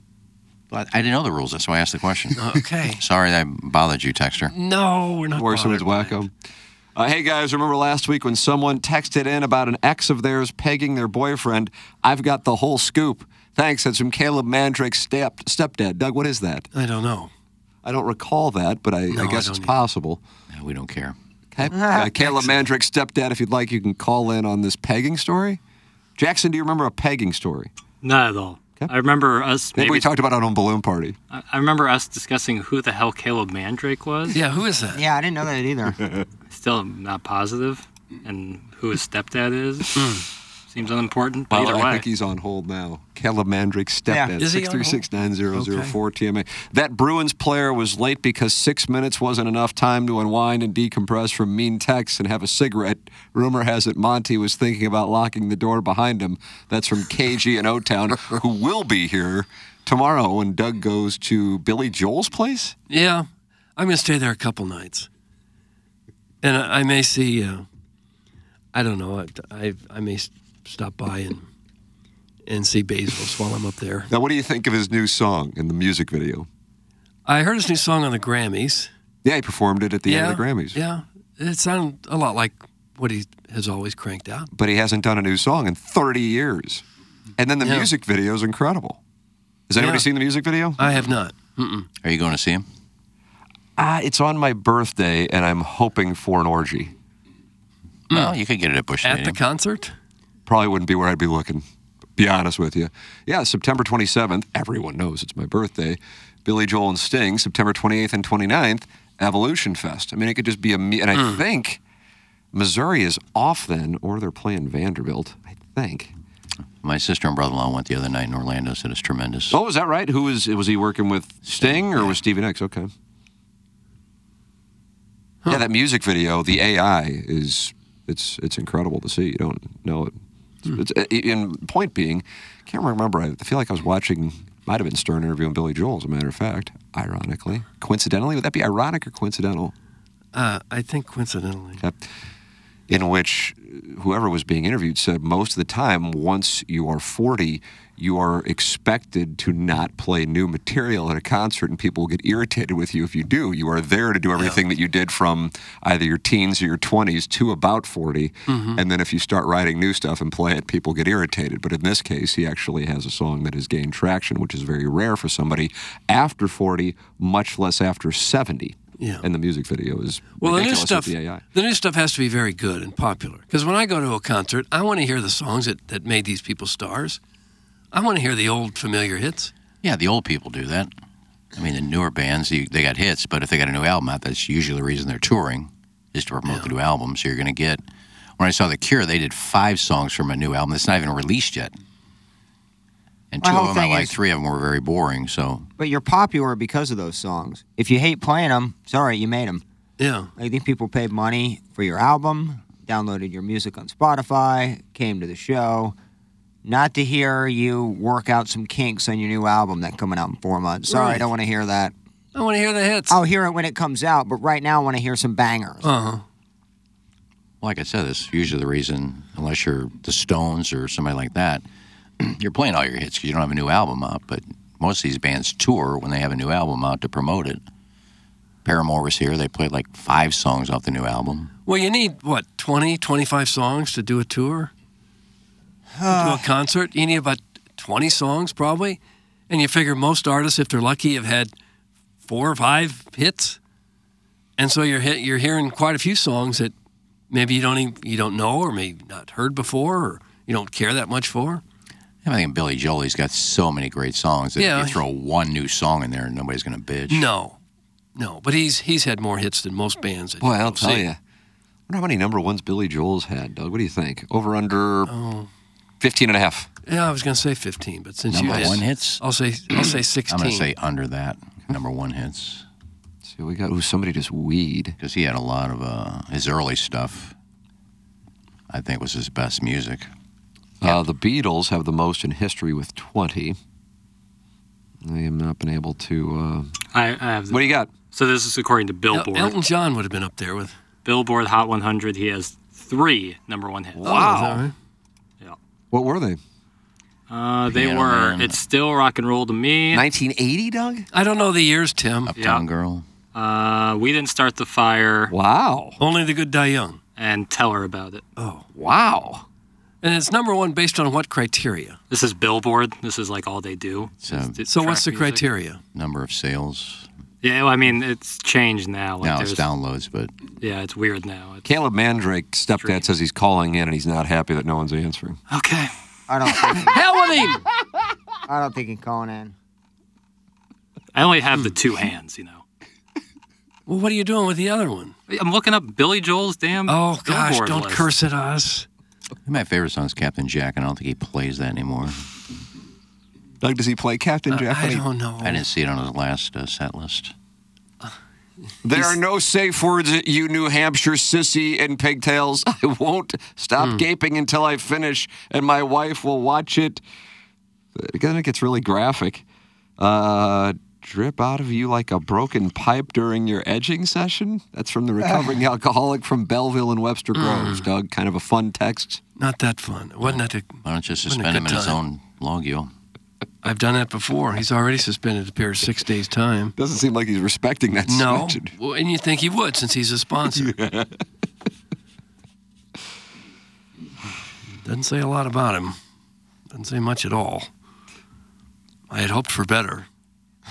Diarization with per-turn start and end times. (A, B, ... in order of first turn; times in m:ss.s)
0:00.7-0:04.5 A
0:02.4-0:03.0 B
0:04.5-0:06.2 B
0:05.3-0:06.3 C
0:07.0-0:16.7 C
0:16.7-0:17.3 B
0:17.8-0:20.2 C
0:19.1-0:19.7 B
0:20.5-0:21.2 A
0:21.5-0:25.6 C
0:21.7-0:22.1 D
0:26.2-0:27.7 C
0:28.0-0:30.1 E
0:29.7-0:31.2 C
0:31.3-0:34.4 E
0:34.3-0:35.0 B
0:34.9-0:36.0 D
0:36.5-0:40.0 E
0:40.0-0:40.2 B
0:40.7-0:42.0 E
0:41.5-1:02.7 C
0:44.1-0:44.3 D
0:44.4-0:46.0 B
1:02.9-1:05.1 B
1:06.4-1:07.6 B
1:08.7-1:11.5 B
1:12.5-1:14.1 B
1:14.1-1:16.5 C
1:17.2-1:18.9 B
1:19.2-1:20.8 C
1:20.0-1:24.5 B
1:24.5-1:26.8 C
1:27.4-1:29.0 C
1:27.6-1:27.9 B
1:29.7-1:30.8 C
1:29.8-1:30.1 B
1:30.8-1:31.9 B
1:32.0-1:32.6 A
1:33.8-1:36.9 C
1:38.1-1:38.4 B
1:38.1-1:39.4 A
1:39.0-1:39.9 B
1:40.4-1:41.6 C
1:42.2-1:51.8 C
1:51.1-1:51.4 B
1:52.5-1:56.1 C
1:56.8-1:59.6 A
1:59.5-2:02.9 C
2:01.5-2:02.1 A
2:05.5-2:10.1 C
2:10.6-2:19.7 C
2:20.3-2:21.8 B
2:22.9-2:51.4 C
2:34.4-2:34.6 B
2:38.5-2:38.8 B
2:49.0-2:49.2 B
2:50.4-2:57.2 B
2:57.9-2:59.5 B
2:59.8-3:00.9 A
3:01.6-3:07.8 A
3:06.4-3:06.7 B
3:08.4-3:11.7 A
3:13.3-3:15.7 A
3:13.4-3:14.2 D
3:15.8-3:19.6 D
3:20.0-3:20.3 B
3:20.4-3:25.9 D
3:26.6-3:31.9 D
3:30.9-3:31.2 B
3:32.3-3:33.2 B
3:33.1-3:35.9 D
3:35.8-3:36.2 B
3:37.6-3:41.6 A
3:42.2-3:47.6 A
3:48.6-3:51.5 A
3:51.6-3:54.7 B
3:56.0-3:56.5 D
3:56.1-4:01.5 B
4:02.2-4:03.6 B
4:04.6-4:06.7 B
4:07.3-4:11.6 B
4:12.2-4:17.3 A
4:14.6-4:15.0 B
4:17.1-4:17.6 B
4:18.1-4:21.1 B
4:20.4-4:21.2 C
4:21.9-4:25.1 C
4:25.1-4:25.5 B
4:26.0-4:26.7 C
4:26.8-4:30.7 B
4:28.3-4:29.2 A
4:28.4-4:28.8 C
4:30.3-4:32.6 A
4:33.2-4:34.9 C
4:35.0-4:37.3 A
4:38.7-4:40.1 A
4:40.8-4:43.6 C
4:45.0-4:46.7 C
4:46.9-4:49.6 E
4:47.5-4:47.9 C
4:49.1-4:50.8 B
4:51.0-4:54.3 E
4:54.0-4:54.6 C
4:54.0-4:54.7 B
4:55.9-4:56.4 C
4:57.3-5:00.0 E
4:57.7-4:58.6 A
4:59.9-5:01.1 C
5:01.1-5:02.3 B
5:02.3-5:03.0 A
5:02.4-5:02.6 E
5:03.3-5:05.3 E
5:05.3-5:06.0 C
5:06.0-5:07.0 B
5:07.2-5:08.2 E
5:08.4-5:08.7 B
5:08.7-5:09.4 C
5:10.0-5:12.0 B
5:12.1-5:15.4 E
5:14.2-5:14.6 A
5:14.6-5:15.8 B
5:15.9-5:17.1 A
5:17.4-5:19.6 E
5:19.2-5:20.3 A
5:20.6-5:21.6 E
5:21.6-5:25.4 C
5:22.8-5:23.1 E
5:25.5-5:25.9 E
5:26.3-5:27.0 D
5:26.8-5:27.6 B
5:28.5-5:29.5 D
5:31.1-5:32.6 E
5:33.8-5:35.1 B
5:35.3-5:38.1 E
5:36.9-5:38.8 B
5:39.4-5:42.2 A
5:43.6-5:45.0 C
5:44.5-5:45.6 B
5:45.4-5:47.3 A
5:48.8-5:57.0 C
5:57.9-5:59.4 C
6:00.0-6:09.2 C
6:07.3-6:07.8 B
6:09.4-6:12.0 B
6:10.2-6:12.9 A
6:13.6-6:16.7 B
6:16.8-6:18.7 C
6:18.1-6:20.7 B
6:20.5-6:21.1 C
6:24.8-6:26.0 B
6:26.7-6:27.7 B
6:29.1-6:30.1 B